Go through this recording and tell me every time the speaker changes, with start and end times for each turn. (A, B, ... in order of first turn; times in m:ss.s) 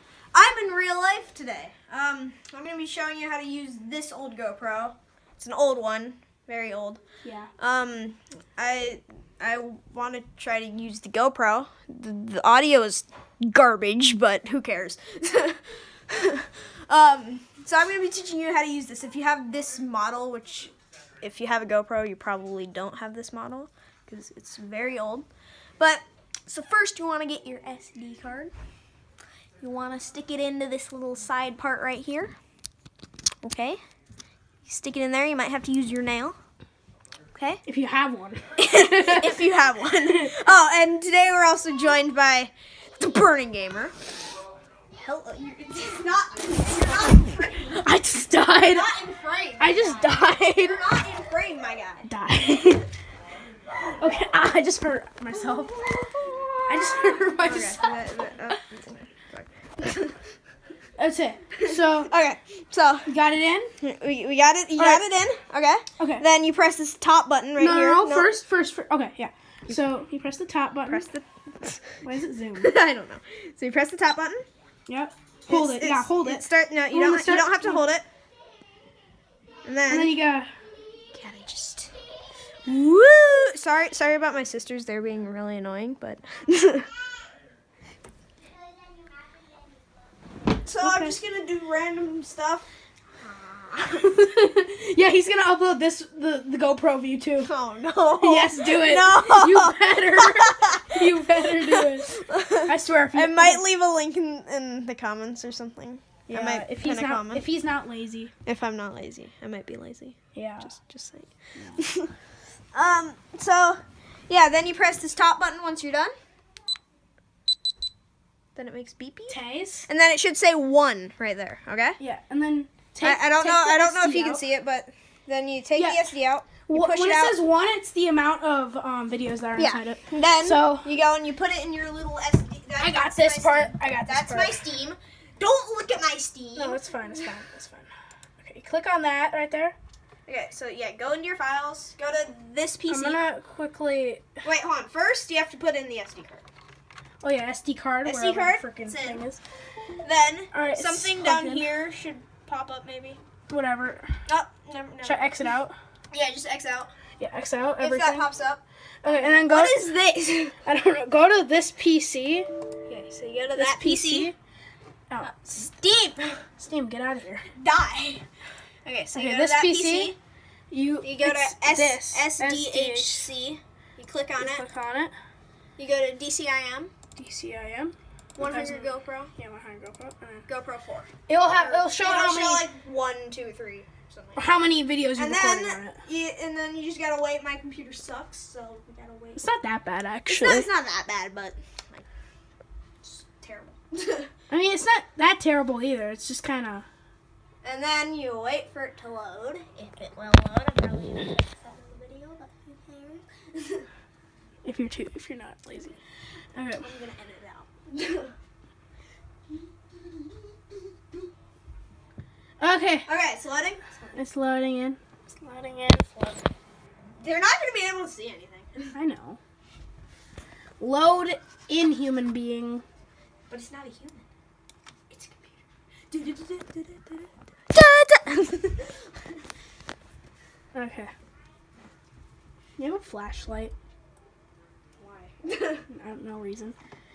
0:00.3-0:07.0 A
0:07.2-0:07.5 B
0:07.6-0:25.3 A
0:25.8-0:28.5 A
0:29.6-0:32.4 A
0:33.4-0:33.8 A
0:34.6-0:36.4 A
0:37.3-0:37.6 A
0:37.6-0:39.5 B
0:38.6-0:43.9 A
0:40.0-0:40.3 B
0:44.9-0:47.8 A
0:47.7-0:48.9 B
0:48.6-0:50.1 A
0:49.6-0:50.8 B
0:50.6-0:52.1 A
0:52.1-0:52.9 B
0:53.9-0:55.8 B
0:55.6-1:00.2 A
0:56.6-0:58.0 B
1:01.0-1:02.1 B
1:01.6-1:03.1 A
1:03.1-1:03.7 B
1:03.8-1:08.3 A
1:04.8-1:05.0 B
1:06.0-1:06.2 B
1:07.6-1:11.0 B
1:10.9-1:12.0 A
1:12.0-1:12.7 B
1:12.6-1:14.4 A
1:14.9-1:17.8 B
1:15.5-1:18.0 A
1:19.6-1:20.1 A
1:19.9-1:20.5 B
1:21.1-1:21.9 A
1:22.6-1:26.9 A
1:30.6-1:32.7 A
1:30.8-1:31.2 B
1:33.2-1:34.0 A
1:33.9-1:37.5 B
1:37.4-1:47.4 A
1:38.2-1:43.6 B
1:46.3-1:48.3 B
1:48.4-1:52.1 A
1:50.3-1:50.7 B
1:51.5-1:51.8 B
1:52.7-1:56.1 A
1:58.6-2:02.0 A
1:59.3-1:59.9 B
2:02.0-2:04.4 B
2:03.0-2:07.4 A
2:05.8-2:06.1 B
2:06.6-2:10.9 B
2:09.6-2:17.3 A
2:12.8-2:14.6 B
2:16.5-2:17.9 B
2:18.4-2:19.8 B
2:20.3-2:23.2 A
2:22.9-2:24.3 B
2:24.4-2:26.4 A
2:27.2-2:29.4 B
2:28.0-2:29.2 A
2:30.0-2:33.2 A
2:30.5-2:31.7 B
2:33.5-2:34.2 B
2:34.2-2:35.3 A
2:35.0-2:35.8 B
2:36.1-2:36.9 A
2:37.2-2:38.3 B
2:37.8-2:40.6 A
2:39.0-2:39.9 B
2:40.6-2:42.5 B
2:42.9-2:44.3 A
2:43.5-2:44.4 B
2:45.1-2:45.4 B
2:45.2-2:46.4 A
2:46.6-2:47.4 B
2:47.5-2:48.2 A
2:48.8-2:50.2 A
2:49.1-2:50.2 B
2:50.7-2:53.3 B
2:51.0-2:54.6 A
2:54.4-2:55.1 B
2:55.8-2:56.9 A
2:57.2-3:00.4 B
2:58.4-2:59.3 A
3:00.5-3:04.5 A
3:01.3-3:02.6 B
3:04.4-3:06.0 B
3:05.2-3:09.4 A
3:09.4-3:10.7 B
3:10.3-3:12.0 A
3:13.0-3:14.3 A
3:14.5-3:16.8 B
3:17.6-3:23.9 A
3:24.6-3:25.9 B
3:25.7-3:26.0 A
3:26.6-3:26.8 B
3:26.7-3:28.3 A
3:32.6-3:33.1 B
3:33.0-3:34.2 A
3:34.1-3:36.5 B
3:37.2-3:38.9 A
3:38.9-3:39.4 B
3:40.8-3:42.8 B
3:43.5-3:44.2 A
3:45.1-3:49.2 A
3:50.7-3:51.1 B
3:52.8-3:53.7 B
3:55.0-3:55.3 B
3:55.4-3:55.8 A
3:55.9-3:56.8 B